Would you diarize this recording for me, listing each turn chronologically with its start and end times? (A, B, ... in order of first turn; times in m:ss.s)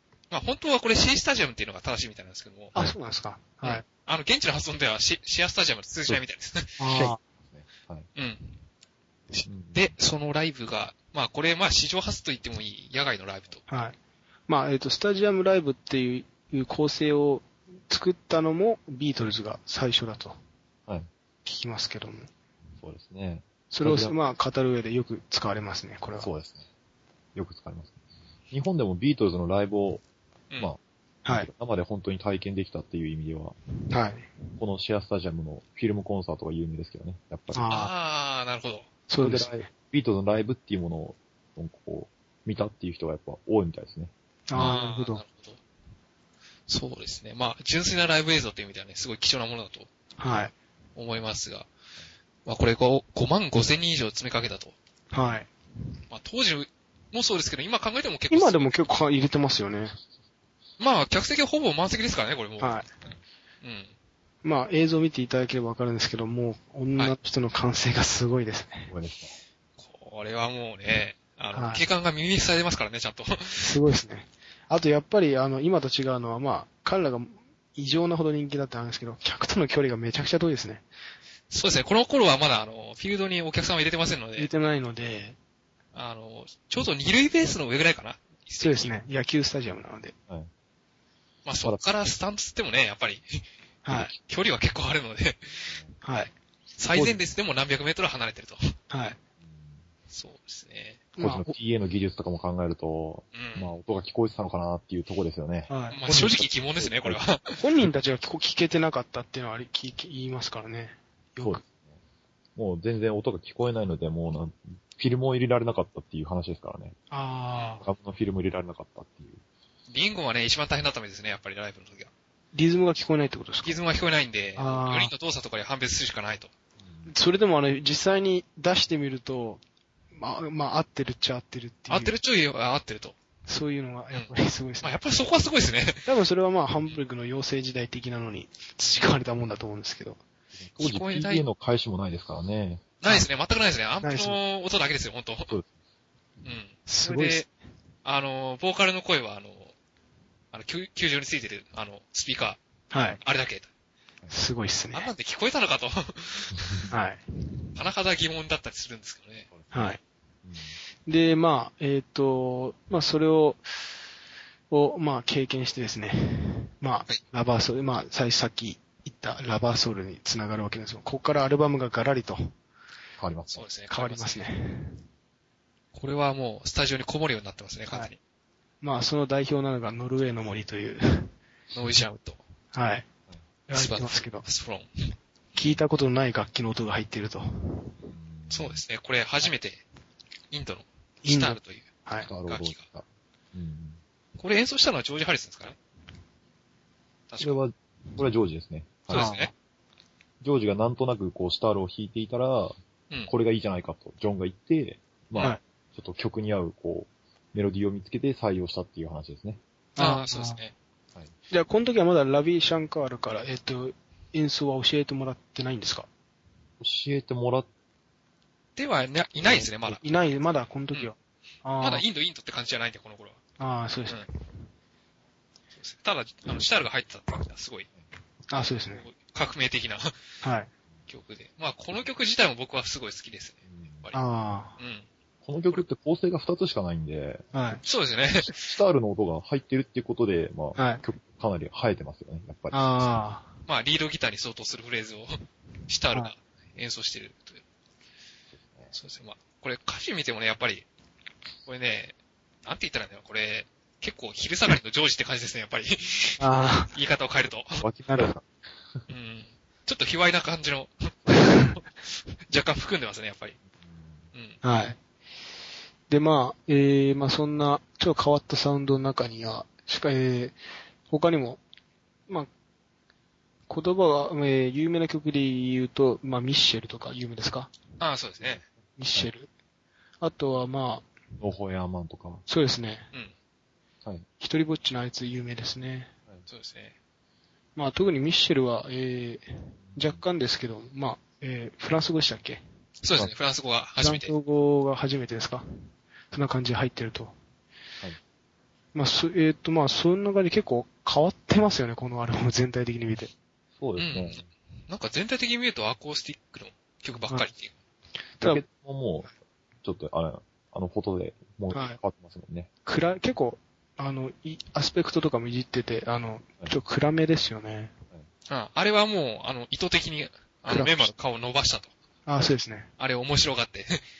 0:00.3-0:02.7 A
0:02.7-0:03.8 B
0:03.6-0:06.8 A
0:06.8-0:07.2 B
0:06.9-0:08.1 C
0:08.2-0:08.6 A
0:09.3-0:13.6 A
0:09.5-0:09.9 C
0:13.7-0:14.0 B
0:14.5-0:20.4 B
0:21.4-0:22.3 B
0:22.8-0:24.2 C
0:23.7-0:26.3 B
0:26.2-0:26.6 C
0:27.3-0:27.9 C
0:28.5-0:30.0 C
0:30.6-0:33.6 C
0:33.9-0:34.3 B
0:34.6-0:37.8 C
0:37.5-0:37.9 B
0:37.7-0:38.9 A
0:39.1-0:39.7 B
0:39.2-0:44.8 C
0:44.5-0:45.2 B
0:44.6-0:45.6 A
0:46.7-0:49.9 A
0:50.2-0:50.5 B
0:51.0-0:51.7 A
0:52.4-0:54.7 A
0:55.1-0:55.5 B
0:56.1-0:58.7 A
0:58.3-1:00.0 B
1:00.8-1:02.8 A
1:02.6-1:02.9 B
1:03.6-1:03.9 A
1:04.4-1:08.9 B
1:08.9-1:09.4 C
1:09.8-1:13.8 A
1:11.5-1:11.8 B
1:13.6-1:20.8 B
1:21.5-1:24.5 A
1:24.4-1:25.4 B
1:25.9-1:28.9 A
1:28.6-1:30.1 B
1:31.4-1:35.6 A
1:33.8-1:34.1 B
1:36.0-1:36.3 B
1:36.8-1:38.8 A
1:36.9-1:37.2 B
1:38.9-1:39.2 B
1:39.4-1:39.8 C
1:40.1-1:41.1 A
1:41.2-1:41.5 B
1:41.2-1:47.2 C
1:43.3-1:43.7 A
1:45.7-1:46.0 B
1:45.9-1:47.6 A
1:47.6-1:51.6 B
1:51.4-1:52.0 C
1:52.6-1:57.0 C
1:57.1-1:57.8 B
1:57.8-1:59.4 C
1:59.9-2:02.1 A
2:02.5-2:03.8 B
2:03.6-2:06.5 A
2:04.6-2:05.1 B
2:06.8-2:07.1 C
2:07.1-2:09.6 B
2:10.1-2:12.1 B
2:11.9-2:13.2 A
2:13.5-2:15.0 B
2:14.1-2:16.1 A
2:16.0-2:20.2 B
2:20.6-2:22.9 C
2:20.8-2:21.4 A
2:23.0-2:25.5 A
2:24.0-2:24.4 B
2:26.4-2:27.5 A
2:26.9-2:27.4 B
2:28.0-2:29.7 A
2:30.5-2:32.6 A
2:32.9-2:33.2 B
2:33.2-2:33.7 A
2:34.3-2:35.1 B
2:34.9-2:36.6 A
2:36.9-2:37.2 B
2:37.8-2:39.5 A
2:39.5-2:39.9 C
2:39.7-2:40.0 B
2:40.4-2:40.8 C
2:41.0-2:43.6 B
2:44.7-2:52.5 B
2:53.2-2:53.6 C
2:53.5-2:54.5 A
2:53.9-2:55.0 B
2:55.9-2:58.2 A
2:58.8-3:01.3 B
3:01.7-3:02.4 A
3:02.7-3:03.0 B
3:03.7-3:04.4 B
3:03.7-3:05.2 A
3:05.6-3:07.9 B
3:08.1-3:08.8 C
3:08.5-3:09.8 A
3:10.5-3:11.9 A
3:11.2-3:12.3 B
3:12.2-3:14.0 C
3:12.4-3:12.8 A
3:14.4-3:15.8 A
3:17.3-3:17.6 A
3:17.4-3:19.3 C
3:19.1-3:19.5 A
3:19.1-3:19.5 B
3:20.4-3:22.8 C
3:23.3-3:29.6 C
3:30.0-3:30.6 B
3:30.0-3:30.7 A
3:31.5-3:36.1 B
3:36.8-3:37.7 C
3:38.8-3:40.2 A
3:39.4-3:42.0 B
3:41.8-3:43.4 A
3:43.6-3:44.4 B
3:45.8-3:47.9 A
3:48.5-3:49.0 B
3:48.9-3:50.1 A
3:50.4-3:50.7 B
3:51.1-3:54.2 A
3:53.7-3:54.0 C
3:54.1-3:54.8 B
3:54.8-3:55.1 A
3:55.4-3:57.4 C
3:57.5-3:57.8 B
3:57.8-3:58.7 A
3:58.4-4:03.1 C
4:00.8-4:01.0 B
4:02.7-4:03.5 B
4:03.7-4:07.6 A
4:08.5-4:08.9 C
4:08.9-4:10.8 A
4:11.6-4:17.8 A
4:16.4-4:16.9 B
4:17.8-4:19.0 C
4:18.1-4:18.3 B
4:19.1-4:21.9 A
4:21.4-4:21.7 B
4:22.4-4:23.6 A
4:23.8-4:24.2 C
4:24.3-4:24.6 A
4:24.6-4:25.0 B
4:26.1-4:30.6 B
4:31.1-4:31.6 B
4:33.7-4:37.7 B
4:38.0-4:38.6 A
4:39.0-4:39.5 B
4:40.2-4:41.1 B
4:41.4-4:42.4 C
4:42.5-4:43.1 B
4:44.4-4:46.1 B
4:46.5-4:46.9 A
4:47.8-4:52.6 B
4:49.9-4:50.2 C
4:53.0-4:54.3 A
4:54.0-4:55.6 B
4:56.3-4:57.3 B
4:58.9-5:03.3 B
5:03.8-5:04.4 C
5:04.0-5:07.7 A
5:08.4-5:09.3 C
5:09.8-5:12.7 C
5:11.7-5:12.0 B
5:12.8-5:17.9 B
5:18.5-5:21.9 A
5:20.7-5:21.1 B
5:22.2-5:22.9 B
5:23.0-5:24.0 A